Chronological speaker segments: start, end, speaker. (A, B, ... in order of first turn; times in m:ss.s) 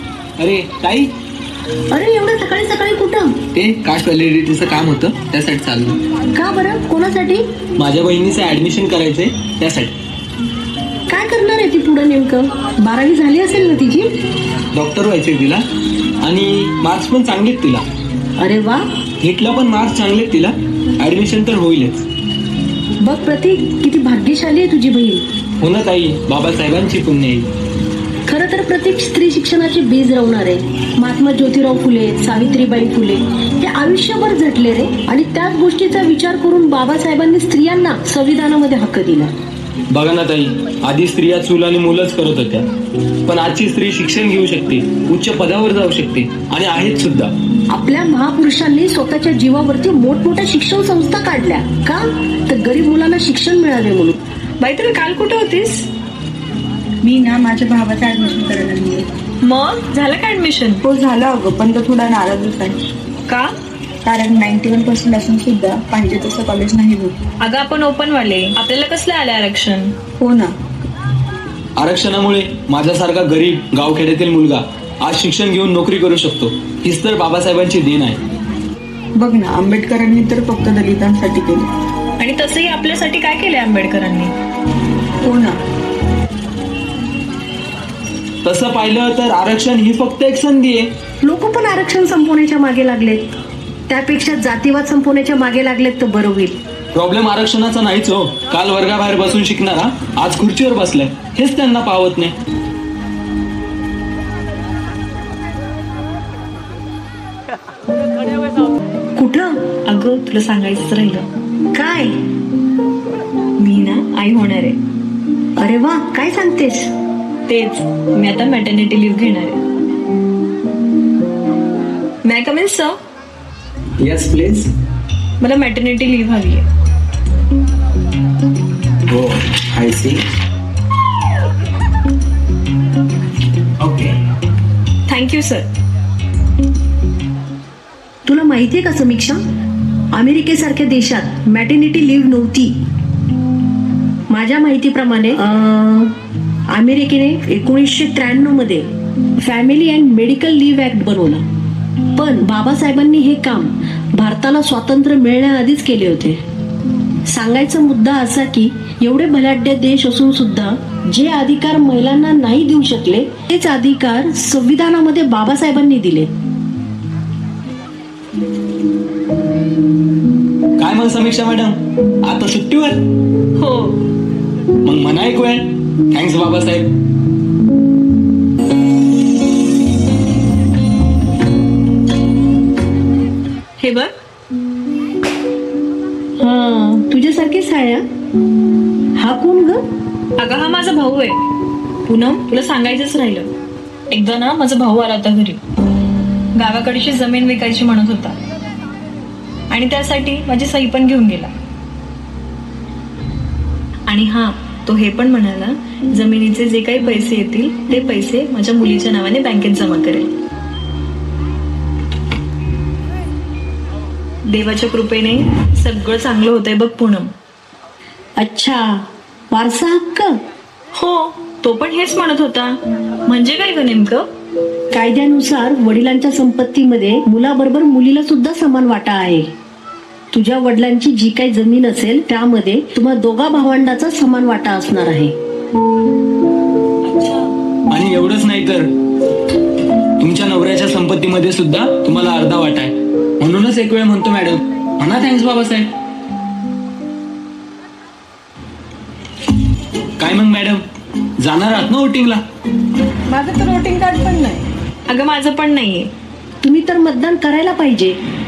0:00.4-0:01.1 A
0:01.9-0:03.3 B
0:03.5-0:06.0 A
0:06.4-0:07.4 B
0:07.8-0:09.9 A
0:11.1-0:14.1 B
0:14.7-0:15.6 A
0:16.2-0:17.8 A
0:18.4-0:18.8 B
0:19.2-0:22.0 A
0:23.0-0:25.2 B
0:25.6-0:27.5 A
0:28.3-0:39.3 B
0:39.9-0:42.7 A
0:43.3-0:47.3 A
0:47.7-0:54.2 B
0:54.6-0:55.8 C
0:57.0-0:59.0 D
0:59.4-1:00.8 C
1:00.9-1:02.8 D
1:04.1-1:07.1 D
1:07.4-1:09.9 C
1:10.2-1:10.5 D
1:11.8-1:18.2 A
1:19.2-1:21.7 D
1:22.2-1:24.3 C
1:25.2-1:25.6 D
1:28.4-1:30.9 A
1:31.2-1:33.3 B
1:33.9-1:36.6 B
1:36.9-1:42.3 A
1:49.2-1:49.5 B
1:49.9-1:51.2 C
1:51.7-1:52.1 B
1:53.6-1:54.8 C
1:55.6-1:56.9 B
1:57.5-1:59.6 C
2:02.2-2:03.0 C
2:04.0-2:04.7 A
2:05.4-2:06.6 C
2:09.1-2:10.2 A
2:13.8-2:14.2 A
2:15.1-2:15.7 C
2:18.3-2:19.4 B
2:20.1-2:22.7 B
2:24.3-2:26.2 B
2:26.7-2:28.8 B
2:29.4-2:31.4 B
2:32.2-2:36.4 B
2:37.3-2:46.3 B
2:50.8-2:53.0 A
2:53.6-2:54.0 C
2:54.8-2:56.9 A
3:03.8-3:04.1 C
3:06.4-3:08.0 B
3:09.2-3:09.8 B
3:10.4-3:11.4 C
3:12.1-3:13.5 C
3:14.1-3:15.6 C
3:16.6-3:18.4 C
3:19.7-3:21.5 C
3:24.1-3:30.3 C
3:34.5-3:37.3 C
3:38.4-3:40.4 B
3:41.0-3:42.8 C
3:43.3-3:44.2 C
3:44.9-3:49.5 B
3:50.3-3:55.3 B
3:57.0-3:57.5 C
3:57.9-3:58.9 A
4:00.2-4:05.9 A
4:10.2-4:10.8 A
4:11.4-4:12.4 A
4:13.3-4:14.6 D
4:15.1-4:16.1 C
4:16.6-4:18.2 B